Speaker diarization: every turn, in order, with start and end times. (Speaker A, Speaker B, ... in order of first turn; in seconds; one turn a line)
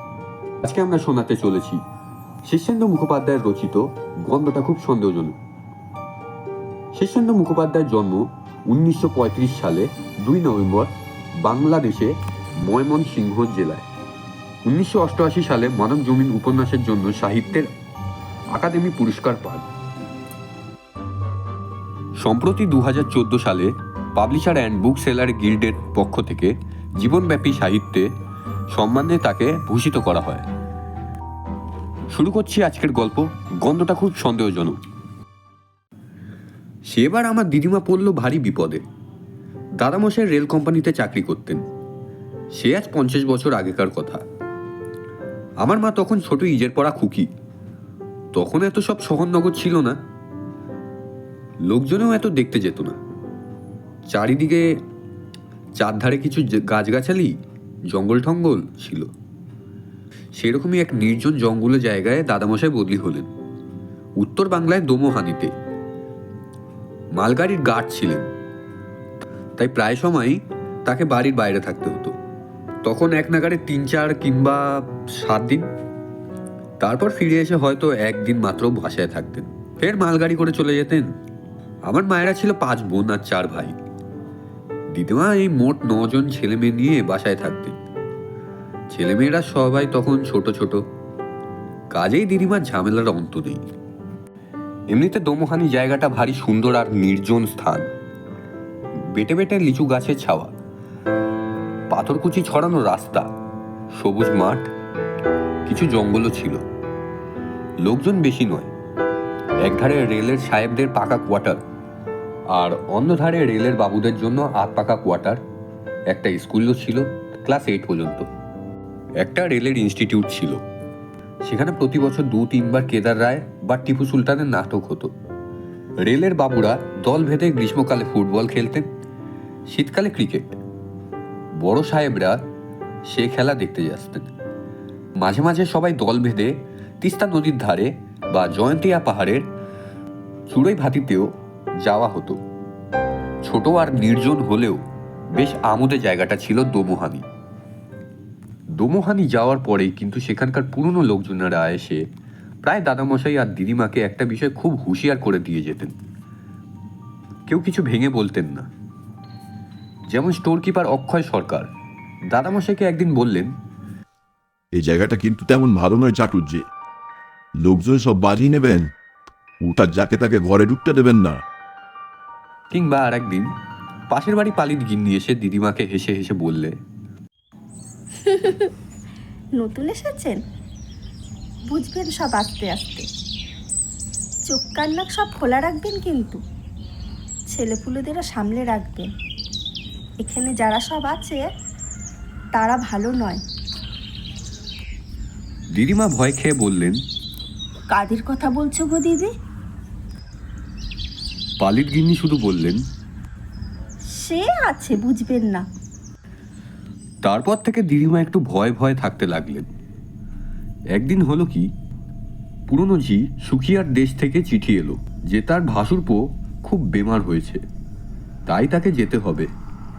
Speaker A: 0.6-1.8
Speaker A: 2.5-5.4
Speaker A: 7.0-13.9
Speaker A: 14.7-17.7
Speaker A: 18.5-19.7
Speaker A: 22.2-28.1
Speaker A: 28.7-30.5
Speaker A: 32.1-34.8
Speaker A: 36.9-38.8
Speaker A: 39.8-41.6
Speaker A: 42.6-44.2
Speaker A: 45.6-47.3
Speaker A: 48.3-50.0
Speaker A: 51.7-53.0
Speaker A: 54.1-54.8
Speaker A: 55.8-57.4
Speaker A: 57.9-59.1
Speaker A: 60.4-63.3
Speaker A: 64.2-65.5
Speaker A: 67.1-68.3
Speaker A: 69.6-72.2
Speaker A: 72.8-75.7
Speaker A: 76.8-81.2
Speaker A: 81.8-83.8
Speaker A: 84.9-87.8
Speaker A: 88.9-90.8
Speaker A: 91.9-93.6
Speaker A: 94.9-97.9
Speaker A: 99.1-100.5
Speaker A: 101.9-103.3
Speaker A: 104.0-104.7
Speaker A: 105.7-106.6
Speaker A: 107.8-108.7
Speaker A: 109.6-111.6
Speaker A: 112.5-115.4
Speaker A: 116.1-118.3
Speaker A: 119.2-120.6
Speaker A: 121.5-125.1
Speaker A: 126.0-128.9
Speaker A: 129.7-130.6
Speaker A: 131.6-132.4
Speaker A: 133.1-134.3
Speaker A: 135.2-139.5
Speaker A: 140.5-142.4
Speaker A: 143.4-144.8
Speaker A: 145.3-147.2
Speaker A: 148.7-152.0
Speaker A: 152.6-156.0
Speaker A: 157.5-158.7
Speaker A: 160.1-161.7
Speaker A: 162.3-163.6
Speaker B: 164.7-166.7
Speaker B: 167.6-168.9
Speaker B: 169.6-171.4
Speaker A: 172.7-173.5
Speaker A: 174.1-176.8
Speaker C: 178.2-178.7
Speaker C: 179.6-180.4
Speaker C: 181.7-183.1
Speaker C: 184.5-186.4
Speaker C: 187.5-189.1
Speaker C: 190.2-191.4
Speaker C: 192.5-193.4
Speaker A: 195.7-197.0
Speaker C: 197.9-199.3
Speaker A: 201.6-202.8
Speaker C: 204.1-205.7
Speaker A: 207.2-209.7
Speaker A: 210.9-211.7
Speaker A: 212.7-217.6
Speaker A: 218.5-219.5